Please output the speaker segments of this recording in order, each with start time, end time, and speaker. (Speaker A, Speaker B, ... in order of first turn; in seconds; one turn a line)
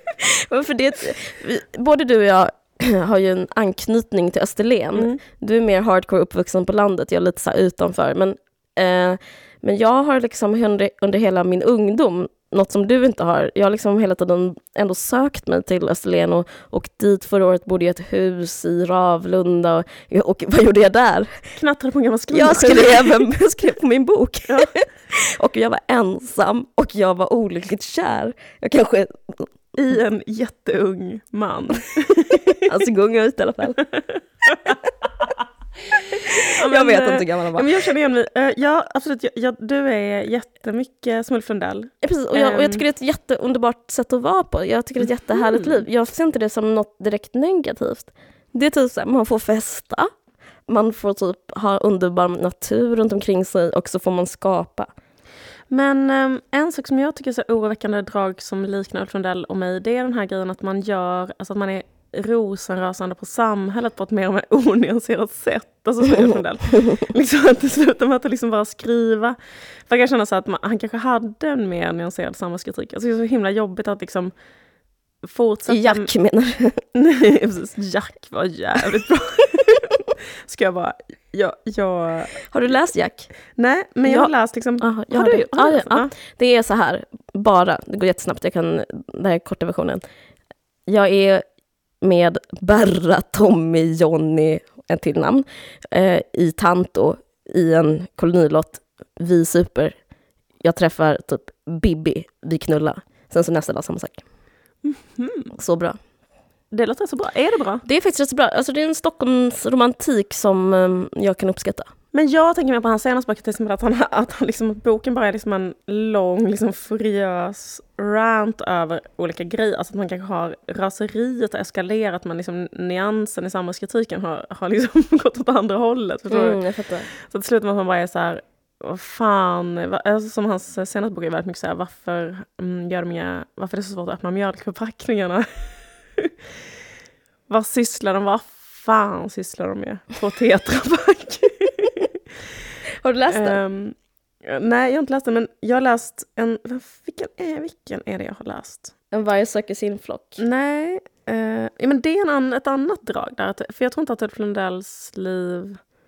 Speaker A: 0.5-21.5
Speaker B: 21.6-23.2
Speaker A: 22.3-29.5
Speaker B: 29.8-32.7
Speaker A: 32.6-33.9
Speaker B: 34.5-34.7
Speaker A: 36.1-37.7
Speaker B: 36.6-42.8
Speaker A: 42.0-50.1
Speaker B: 45.5-45.8
Speaker A: 50.7-54.9
Speaker B: 55.7-74.3
Speaker A: 66.1-67.0
Speaker B: 75.2-76.1
Speaker A: 75.7-76.8
Speaker B: 76.9-82.5
Speaker A: 82.5-83.3
Speaker B: 83.6-86.1
Speaker A: 84.0-90.0
Speaker A: 90.9-91.4
Speaker A: 92.0-100.0
Speaker A: 100.6-104.2
Speaker B: 104.8-105.5
Speaker A: 105.5-106.0
Speaker B: 106.7-107.8
Speaker A: 107.8-111.9
Speaker B: 112.1-126.6
Speaker A: 126.3-127.1
Speaker B: 127.1-136.3
Speaker B: 137.5-142.2
Speaker A: 143.0-143.6
Speaker B: 143.3-148.9
Speaker A: 149.1-150.4
Speaker B: 150.4-155.8